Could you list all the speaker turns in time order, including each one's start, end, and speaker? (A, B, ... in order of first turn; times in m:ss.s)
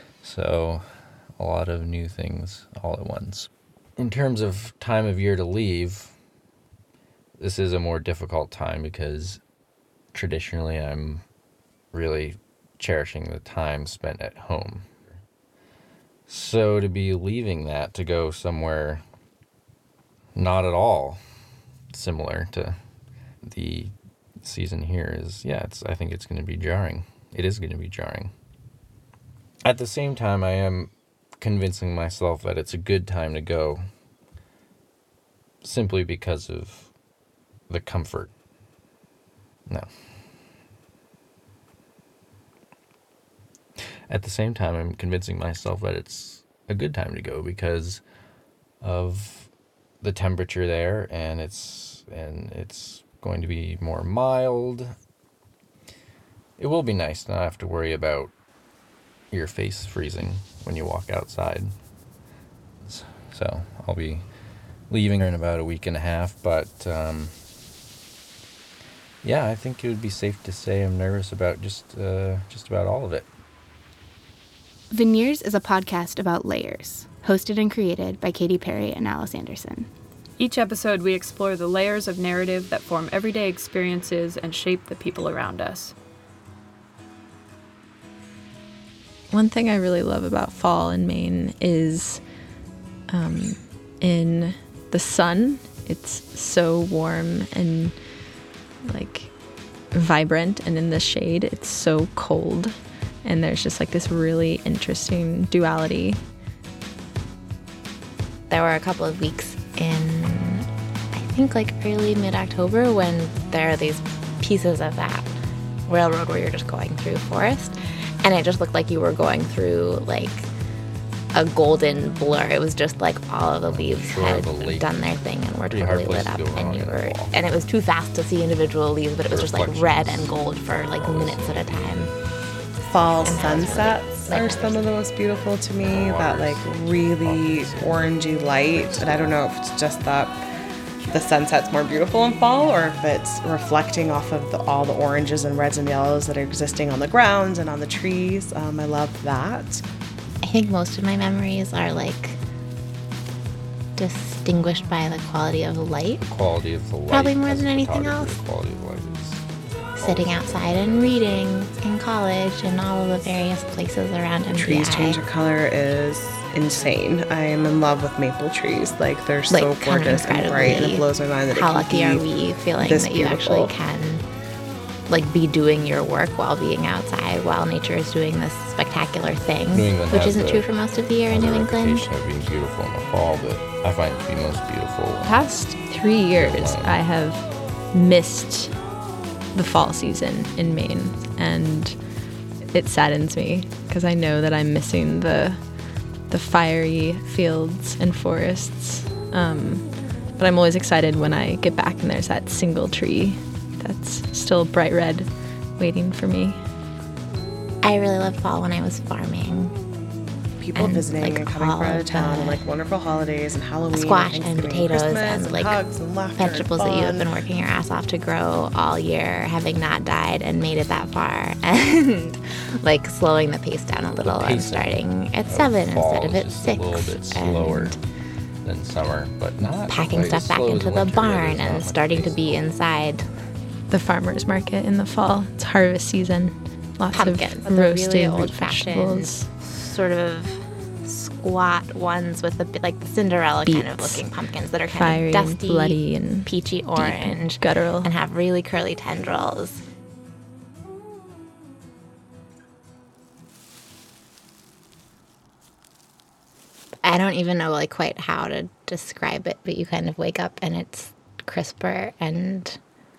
0:00.2-0:06.1 A
0:07.4-0:09.4 A
0:10.1-0:11.2 A
0:11.9-0:15.2 A
0:16.3-0:19.0 A
0:20.4-0:21.2 A
0:21.9-0:22.8 A
0:23.4-0:28.3 A
0:29.6-0:33.8 A
0:35.6-0:36.9 A
0:37.7-0:38.3 A
0:44.1-0:48.0 A
0:48.8-0:49.5 A
0:50.0-0:55.0 A
0:56.6-0:58.3 A
0:59.3-1:01.7 A
1:02.8-1:04.2 A
1:04.9-1:07.3 A
1:09.2-1:13.3 A
1:14.9-1:19.9 B
1:20.4-1:25.9 C
1:29.3-1:32.2 D
1:33.1-1:38.0 D
1:38.9-1:39.3 D
1:39.9-1:46.2 D
1:48.5-1:55.3 E
1:55.9-2:00.5 E
2:01.3-2:12.1 E
2:03.6-2:05.1 A
2:05.7-2:07.4 A
2:09.3-2:12.2 A
2:12.9-2:20.4 F
2:13.2-2:14.9 E
2:15.8-2:19.4 A
2:21.1-2:29.8 F
2:30.4-2:32.4 E
2:34.0-2:36.2 E
2:36.2-2:39.4 A
2:37.1-2:38.4 E
2:40.0-2:41.6 A
2:40.0-2:45.2 E
2:44.5-2:52.3 F
2:49.5-2:54.2 E
2:52.8-2:53.7 F
2:55.1-3:02.1 E
2:59.7-3:00.7 A
3:01.3-3:05.5 A
3:05.2-3:08.8 D
3:06.3-3:07.0 A
3:09.5-3:12.0 D
3:12.7-3:15.6 D
3:16.3-3:26.6 D
3:27.8-3:29.8 E
3:30.6-3:37.3 F
3:30.8-3:32.6 E
3:33.9-3:35.8 E
3:36.4-3:48.0 E
3:44.0-3:48.0 A
3:48.6-3:52.7 A
3:49.9-3:53.3 E
3:53.9-3:59.5 D
3:57.1-4:09.8 E
4:03.6-4:04.3 D
4:04.9-4:08.1 D
4:17.0-4:22.8 E